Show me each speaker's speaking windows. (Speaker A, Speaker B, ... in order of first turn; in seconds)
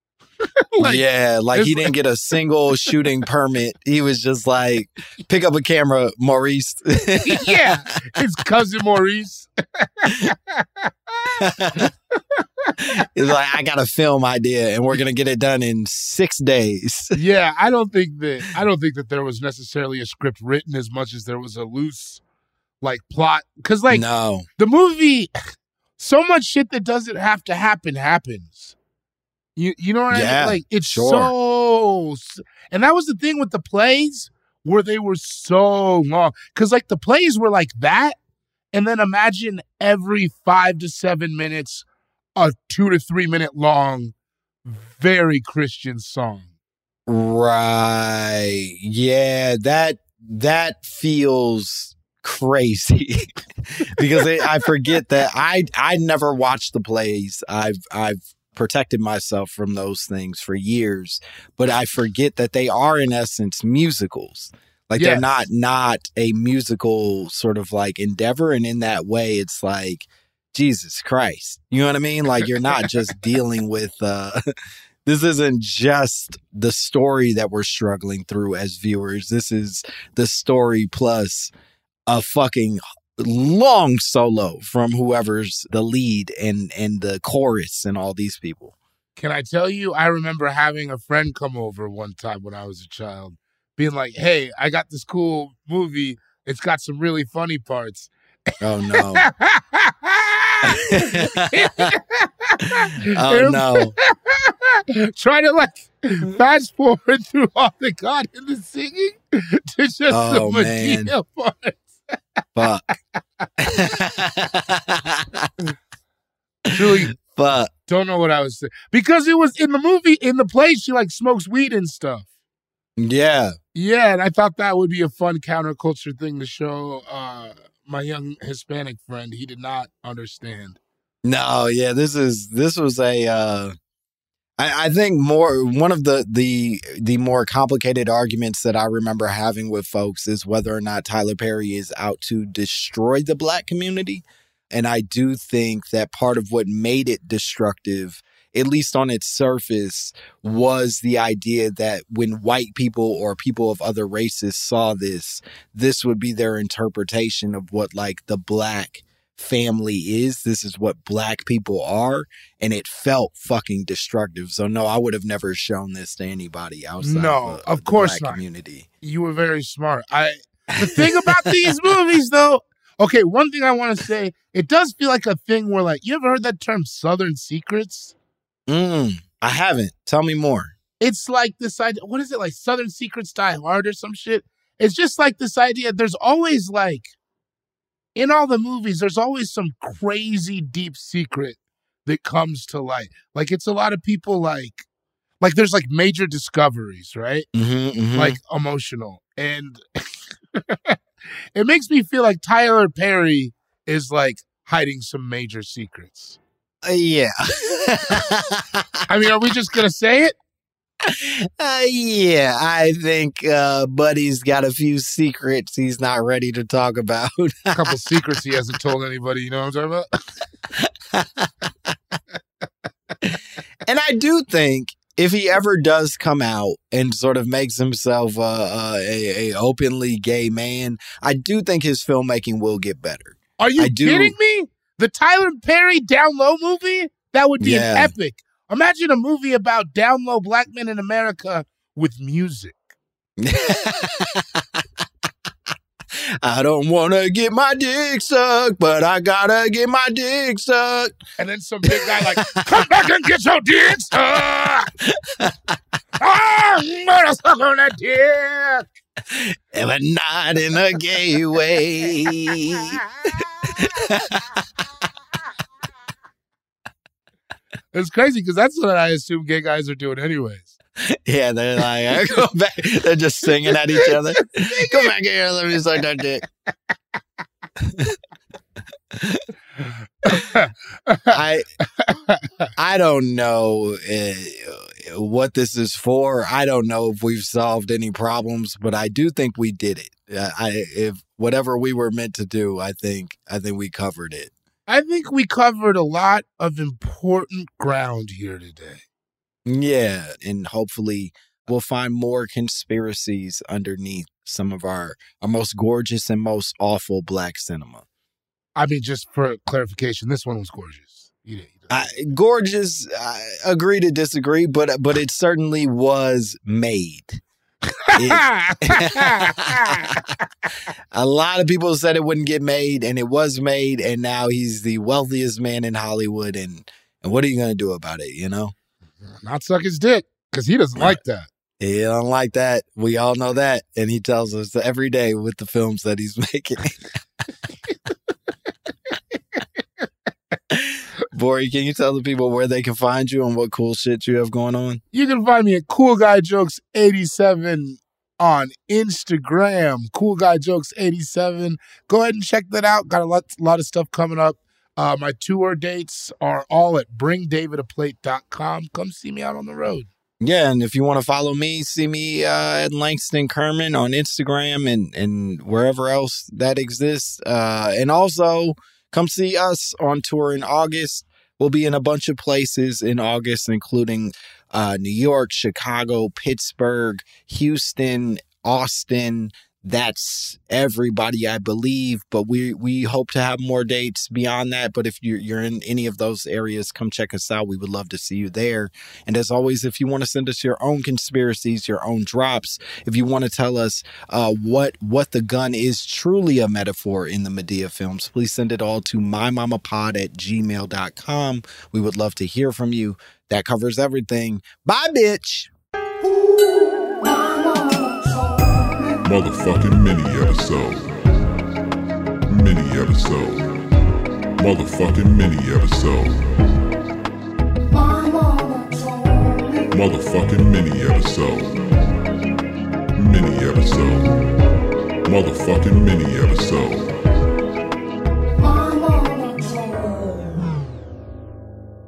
Speaker A: 0.8-1.9, 7.2-12.7, 17.1-22.2, 22.8-24.1, 24.6-25.3, 26.0-28.8, 29.6-38.2, 38.7-41.8, 42.4-44.1, 44.6-46.5, 65.0-65.3, 89.2-112.7, 116.7-117.2, 117.9-122.3, 123.8-130.8, 167.0-168.4, 169.0-178.1, 181.0-187.1, 188.2-194.8, 195.4-197.5, 198.1-200.0, 200.6-201.0, 201.6-206.4, 209.1-210.3, 217.7-220.1, 233.6-242.8, 251.4-254.9, 256.2-258.9, 267.9-270.8, 273.7-274.2, 274.8-275.1, 280.3-281.4, 282.0-282.7, 294.9-299.0, 308.8-312.0, 318.1-320.2, 329.3-331.5, 345.1-360.1
Speaker B: 0.8-7.8, 11.3-11.9, 12.9-17.2, 23.9-24.5, 30.1-31.3, 47.1-53.3, 54.0-74.4, 75.0-81.5, 82.1-88.8, 98.6-99.2, 100.7-101.9, 103.1-104.0, 110.1-111.1, 112.6-112.8, 113.6-115.5, 116.7-117.7, 123.0-123.6, 131.2-133.7, 134.6-168.9, 170.8-171.9, 178.7-180.7, 197.6-198.4, 206.8-209.0, 211.0-218.0, 220.8-221.5, 223.2-234.3, 237.6-238.1, 243.4-244.7, 246.4-251.1, 251.9-253.1, 255.2-255.7, 259.3-263.0, 263.7-264.6, 271.2-276.4, 277.8-278.2, 279.1-279.4, 281.3-281.7, 282.8-294.5, 299.7-308.1, 311.9-317.4, 318.1-320.2, 321.1-328.7, 331.8-337.0, 340.7-345.0, 360.4-405.7
Speaker C: 409.2-411.2, 412.5-413.7, 414.6-416.5, 419.9-421.8, 423.2-424.4, 425.2-427.1